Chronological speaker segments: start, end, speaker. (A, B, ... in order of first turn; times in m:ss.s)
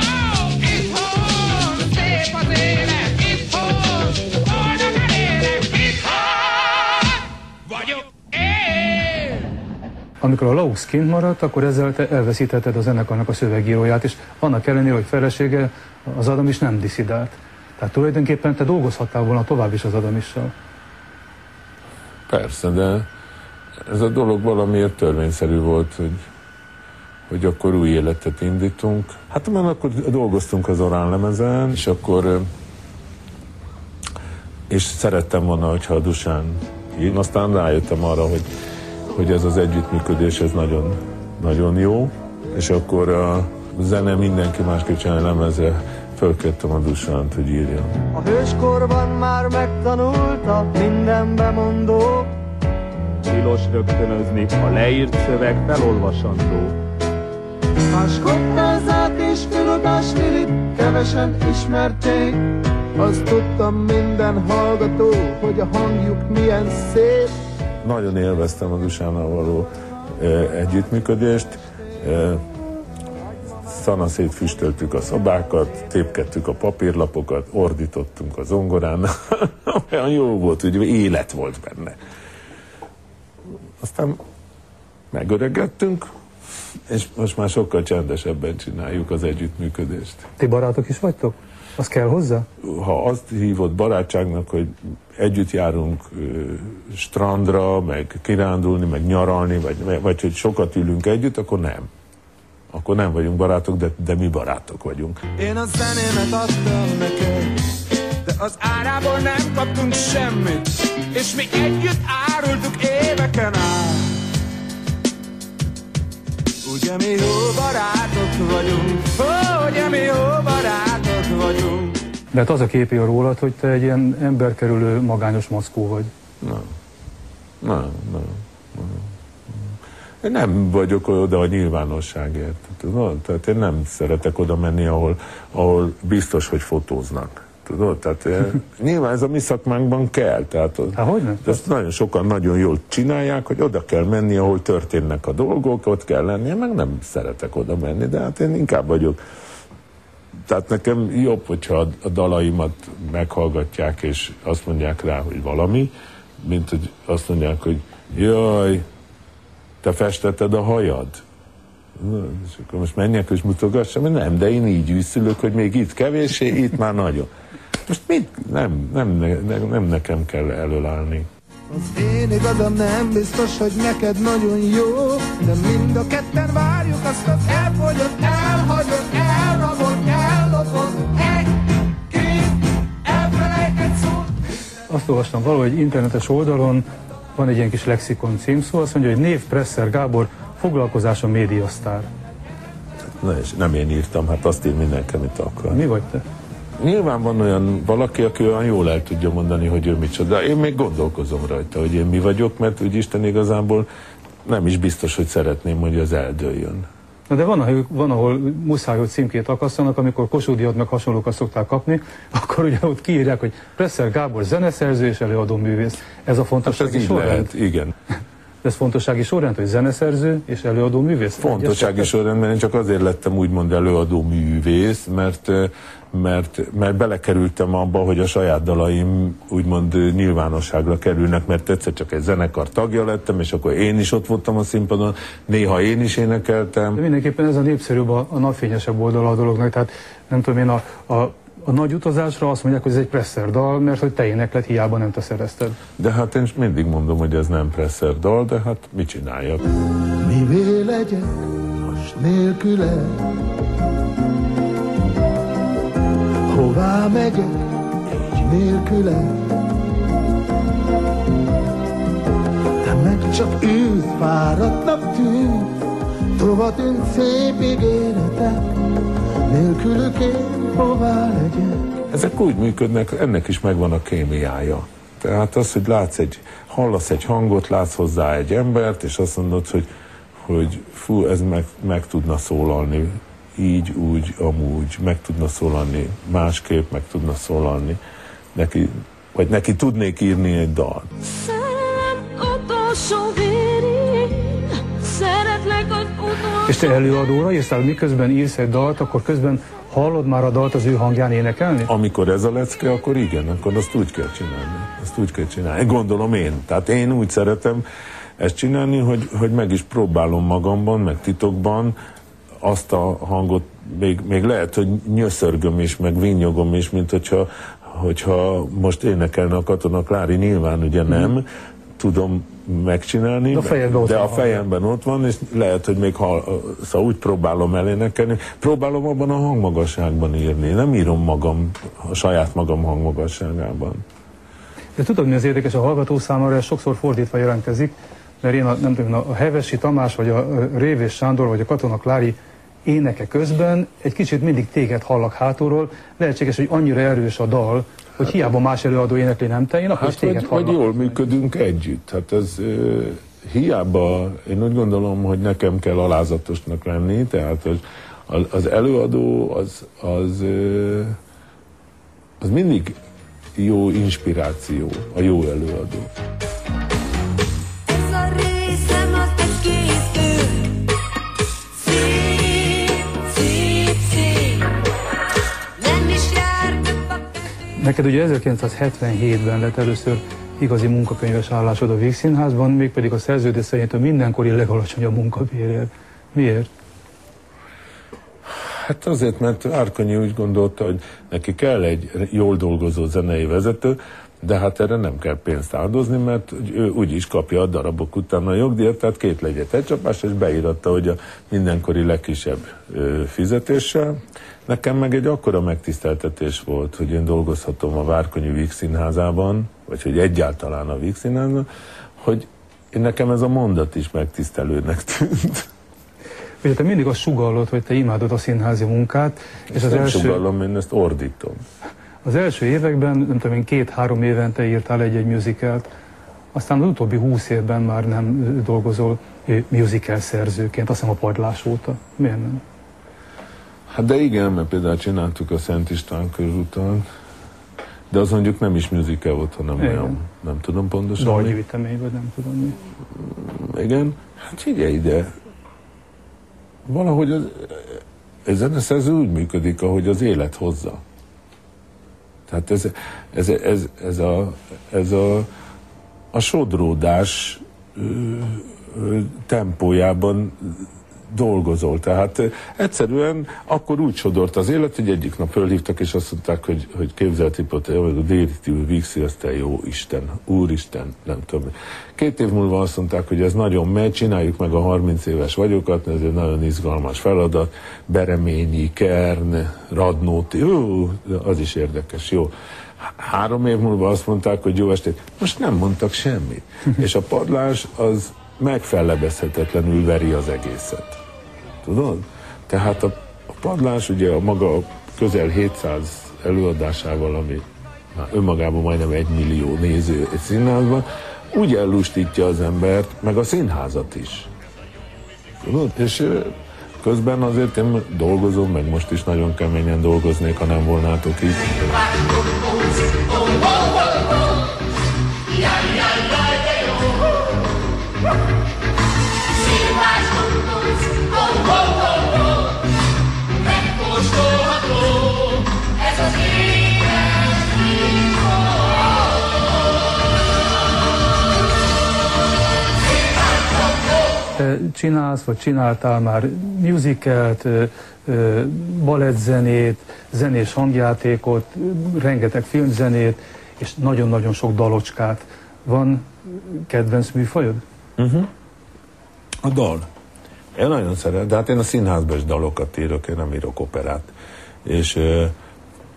0:10.2-0:20.5 A
0:22.3-0:23.1 B
0:23.9-0:26.2 B
0:27.3-0:32.5 B
0:34.7-0:38.5 B
0:39.1-0:47.9 B
0:48.1-0:52.3 C
0:53.3-0:56.8 D
0:57.9-1:07.4 C
1:07.8-1:12.4 B
1:13.6-1:22.0 B
1:23.8-1:24.2 B
1:25.1-1:26.0 B
1:26.9-1:30.3 B
1:30.4-1:32.5 A
1:32.6-1:41.9 B
1:42.7-1:45.3 B
1:45.4-1:47.7 C
1:48.2-1:54.2 C
1:56.6-2:02.1 C
2:02.3-2:06.1 A
2:06.4-2:06.7 B
2:07.6-2:09.7 B
2:10.2-2:29.2 B
2:21.0-2:21.6 A
2:30.5-2:38.8 B
2:39.8-2:41.2 B
2:42.0-2:47.3 B
2:47.9-2:51.3 B
2:51.7-3:04.3 C
3:04.9-3:12.1 A
3:13.1-3:15.8 B
3:15.7-3:16.2 A
3:16.8-3:23.9 B
3:24.4-3:26.9 B
3:27.3-3:37.5 A
3:36.6-3:37.9 B
3:38.6-3:42.1 A
3:41.4-3:57.0 B
3:57.0-4:05.8 A
4:06.0-4:09.7 B
4:10.2-4:11.5 C
4:11.8-4:12.1 B
4:12.2-4:13.3 C
4:16.5-4:17.6 C
4:18.3-4:19.5 C
4:22.8-4:25.7 C
4:26.4-4:28.6 C
4:29.5-4:31.8 C
4:32.1-4:39.9 B
4:40.4-4:48.0 B
4:48.6-4:51.3 B
4:51.3-4:56.8 E
4:56.6-5:01.9 A
5:01.9-5:07.8 B
5:08.4-5:11.9 B
5:12.6-5:21.4 B
5:22.0-5:34.0 B
5:23.5-5:24.6 A
5:35.0-5:51.2 A
5:50.0-6:01.2 B
6:02.4-6:03.0 B
6:03.6-6:06.1 B
6:07.9-6:10.8 E
6:11.8-6:14.8 E
6:15.8-6:17.2 E
6:17.8-6:26.7 A
6:28.6-6:51.7 B
6:52.2-6:55.7 B
6:56.6-7:00.4 A
6:59.7-7:01.6 B
7:02.2-7:05.9 A
7:06.5-7:12.6 A
7:13.9-7:17.0 B
7:18.1-7:21.6 B
7:19.8-7:20.2 A
7:21.2-7:22.8 A
7:23.2-7:25.3 B
7:26.9-7:31.0 B
7:32.5-7:35.5 B
7:36.3-8:11.2 B
8:11.8-8:24.5 B
8:25.6-8:33.8 B
8:39.9-8:42.0 E
8:44.0-8:44.9 E
8:54.6-9:07.8 A
9:08.2-9:08.5 B
9:09.6-9:10.1 B
9:10.8-9:14.3 B
9:14.8-9:15.5 B